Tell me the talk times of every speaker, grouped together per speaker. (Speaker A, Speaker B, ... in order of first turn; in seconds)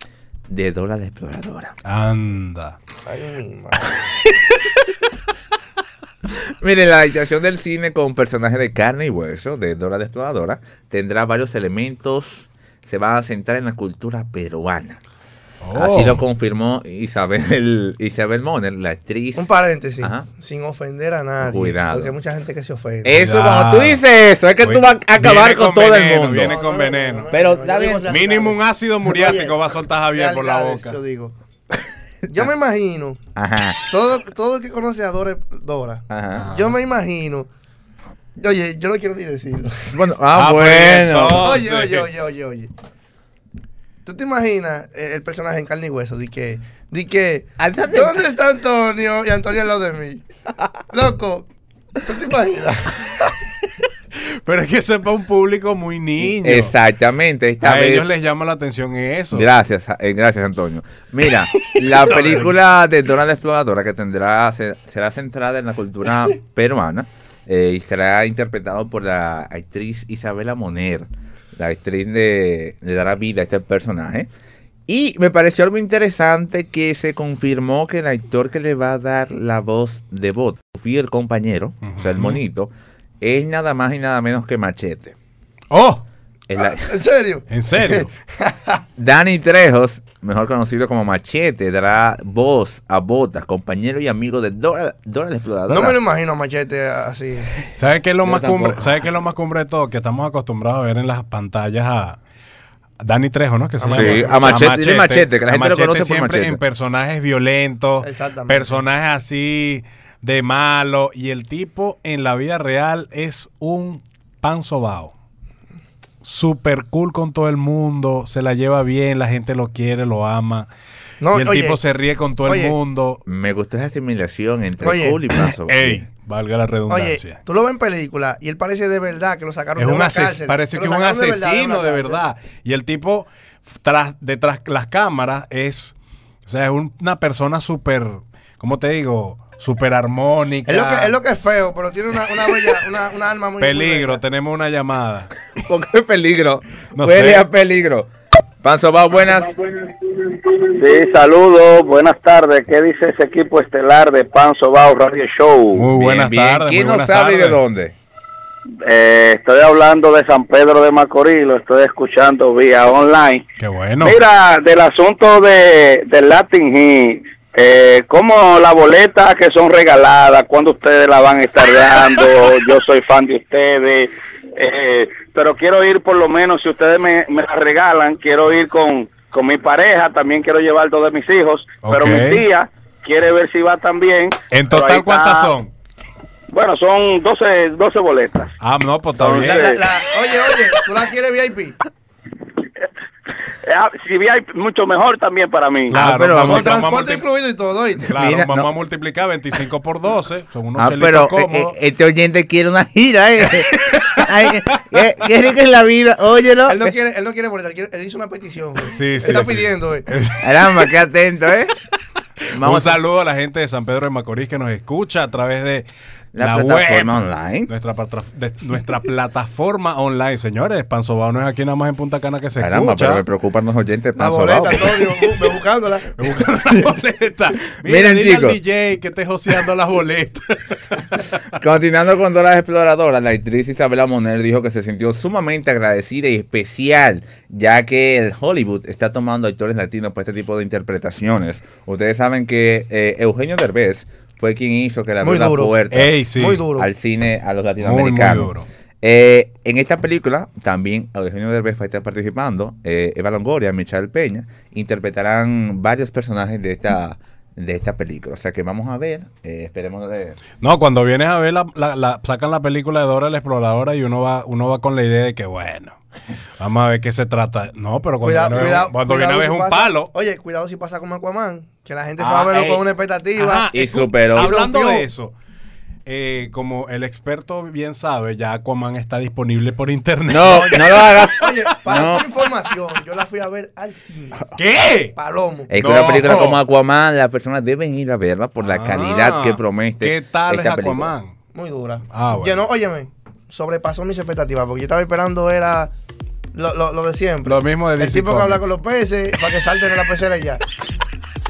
Speaker A: 0.5-1.8, 6.3-15.0, 15.8-19.5, 20.0-20.3, 21.4-22.1, 23.0-26.6, 27.3-28.1, 33.4-33.8, 36.1-36.5, 39.9-41.5, 47.6-48.2, 56.2-58.1, 59.3-74.3, 74.9-82.7, 83.2-85.2, 86.5-86.9, 89.0-96.0, 98.2-98.9, 103.9-106.6, 123.3-126.1, 145.6-148.1, 148.6-149.6, 155.9-158.0, 195.9-196.8, 198.1-198.7, 200.8-206.9, 210.4-211.7, 212.5-213.0, 216.3-217.7, 222.6-225.1, 227.8-228.6, 231.6-260.4, 272.2-272.8, 273.7-274.6, 280.3-282.2, 285.7-291.1
Speaker B: 1.8-2.8, 15.6-16.2, 23.1-24.0, 24.6-27.3, 28.1-30.9, 36.4-36.8, 40.3-42.1, 54.2-56.7, 57.6-59.5, 61.8-62.5, 81.9-82.4, 85.7-86.0, 87.5-88.1, 97.7-102.2, 103.0-115.1, 116.2-120.7, 121.3-123.2, 125.4-127.4, 129.8-135.9, 136.5-141.2, 143.6-145.3, 146.9-147.4, 155.7-157.6, 163.6-164.2, 181.8-182.4, 184.5-185.7, 188.6-189.8, 195.9-197.2, 198.1-201.7, 203.4-205.0, 208.9-210.9, 212.5-215.9, 216.4-223.2, 226.2-231.6, 245.9-246.7, 247.8-248.7, 260.6-266.0, 266.6-270.1, 273.4-275.3, 276.1-282.1, 284.6-285.1, 285.8-286.6, 288.6-291.4, 292.1-292.6, 297.4-298.6
Speaker C: 3.1-3.9, 19.4-23.2, 26.4-29.6, 30.1-31.3, 32.3-33.2, 33.9-37.5, 38.4-39.9, 41.4-42.7, 44.0-50.2, 50.9-51.5, 52.0-53.2, 86.6-88.8, 95.7-97.6, 103.8-104.7, 108.0-108.8, 121.2-121.8, 122.5-122.8, 124.8-125.2, 126.9-132.2, 140.7-144.2, 189.4-191.8, 196.4-198.2, 206.7-210.1, 224.2-226.2, 245.2-245.7, 246.4-246.9, 268.2-273.7, 274.3-275.1, 280.9-284.4, 285.2-285.7, 291.5-295.9, 296.5-300.6
Speaker D: 149.6-155.9, 158.8-163.4, 164.0-185.5, 186.5-188.5, 189.2-189.8, 193.6-196.0